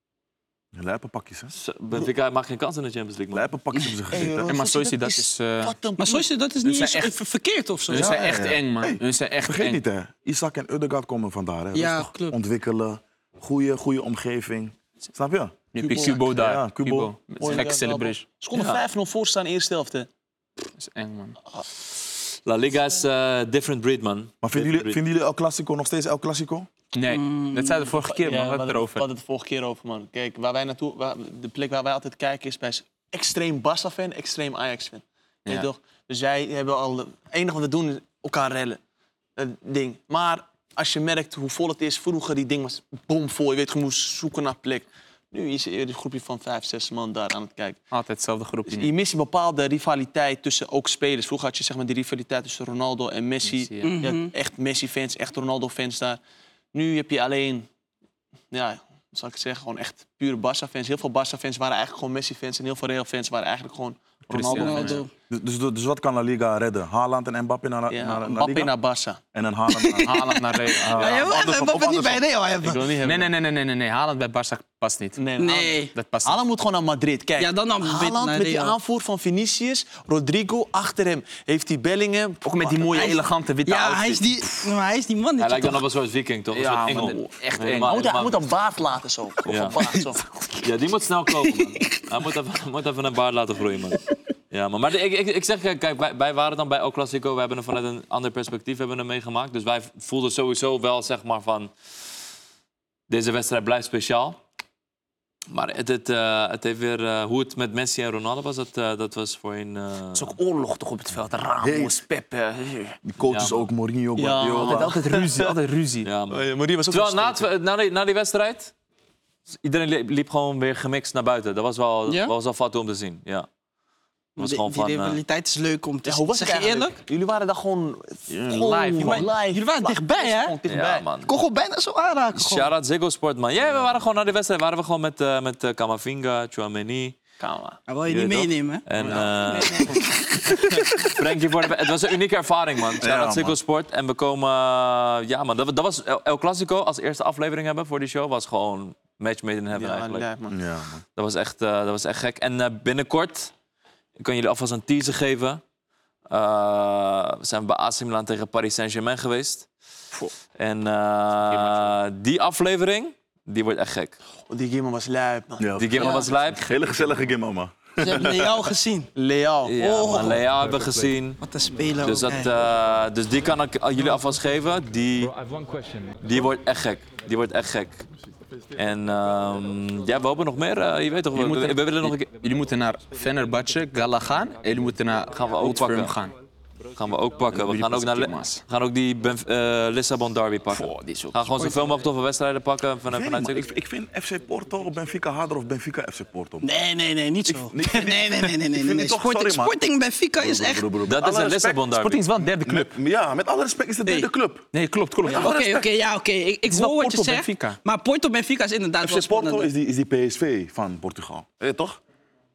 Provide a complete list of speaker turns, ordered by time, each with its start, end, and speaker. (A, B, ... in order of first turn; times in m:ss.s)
0:00.7-0:01.5 A
0:01.5-0:03.5 B
0:03.3-0:04.5 A
0:04.1-0:06.3 C
0:04.4-0:05.7 D
0:06.0-0:08.2 E
0:06.6-0:07.1 D
0:07.9-0:09.8 D
0:07.9-0:17.1 A
0:11.7-0:12.3 E
0:15.7-0:18.2 D
0:15.8-0:16.2 C
0:17.4-0:20.1 C
0:18.5-0:18.8 B
0:20.8-0:21.4 D
0:22.4-0:25.0 B
0:24.4-0:26.7 A
0:26.9-0:29.0 D
0:27.1-0:27.8 E
0:28.0-0:38.8 C
0:39.4-0:47.8 C
0:47.9-0:48.9 D
0:48.7-0:56.2 C
0:53.4-0:54.0 D
0:53.8-0:54.3 E
0:56.7-0:57.7 C
0:58.5-1:05.0 C
1:04.3-1:05.0 D
1:04.5-1:05.1 E
1:05.3-1:08.7 A
1:07.9-1:09.2 C
1:09.3-1:12.2 A
1:09.7-1:12.9 E
1:10.0-1:11.3 D
1:10.9-1:11.2 C
1:12.6-1:13.3 C
1:13.0-1:15.2 D
1:15.2-1:23.3 C
1:15.4-1:15.9 E
1:15.9-1:16.4 D
1:17.4-1:18.7 E
1:22.4-1:24.2 D
1:23.6-1:25.8 E
1:25.4-1:28.4 B
1:26.5-1:28.1 D
1:27.8-1:30.5 C
1:29.4-1:29.8 B
1:30.6-1:41.7 B
1:31.5-1:32.0 E
1:43.1-1:44.4 B
1:45.5-1:50.4 B
1:50.2-1:53.0 C
1:51.6-1:52.0 A
1:53.0-1:55.0 A
1:53.2-1:53.7 B
1:54.2-1:55.6 C
1:54.4-1:54.8 B
1:54.4-1:56.1 D
1:56.0-1:58.7 B
1:56.3-1:57.5 C
1:59.6-2:03.5 B
2:02.1-2:02.3 E
2:04.4-2:05.2 B
2:04.4-2:07.0 E
2:06.0-2:11.0 C
2:08.3-2:09.3 D
2:09.0-2:10.5 E
2:10.7-2:11.3 B
2:11.2-2:12.7 E
2:12.3-2:17.2 B
2:17.4-2:17.8 C
2:17.9-2:21.2 E
2:18.1-2:19.9 B
2:19.0-2:19.9 D
2:21.0-2:30.3 B
2:23.0-2:23.6 A
2:29.7-2:30.6 C
2:30.5-2:31.0 A
2:31.2-2:33.5 B
2:34.2-2:35.6 B
2:36.3-2:39.7 B
2:40.5-2:44.2 B
2:41.4-2:41.9 D
2:44.5-2:46.2 C
2:45.6-2:48.6 A
2:45.8-2:47.0 B
2:48.0-2:49.1 E
2:49.1-2:50.3 C
2:49.6-2:51.4 B
2:49.8-2:50.4 E
2:51.4-2:52.5 E
2:52.0-2:55.3 B
2:56.2-2:58.0 B
2:58.8-3:02.3 B
3:01.3-3:06.3 D
3:05.3-3:06.2 B
3:07.0-3:13.7 B
3:07.5-3:08.6 D
3:10.7-3:11.7 D
3:13.1-3:16.7 A
3:16.6-3:20.9 E
3:17.5-3:19.8 A
3:20.4-3:21.8 A
3:21.0-3:22.2 B
3:22.0-3:22.9 C
3:22.1-3:22.7 D
3:22.6-3:24.7 A
3:24.7-3:25.5 D
3:25.2-3:25.9 A
3:25.2-3:29.7 E
3:26.7-3:27.8 D
3:29.0-3:32.0 A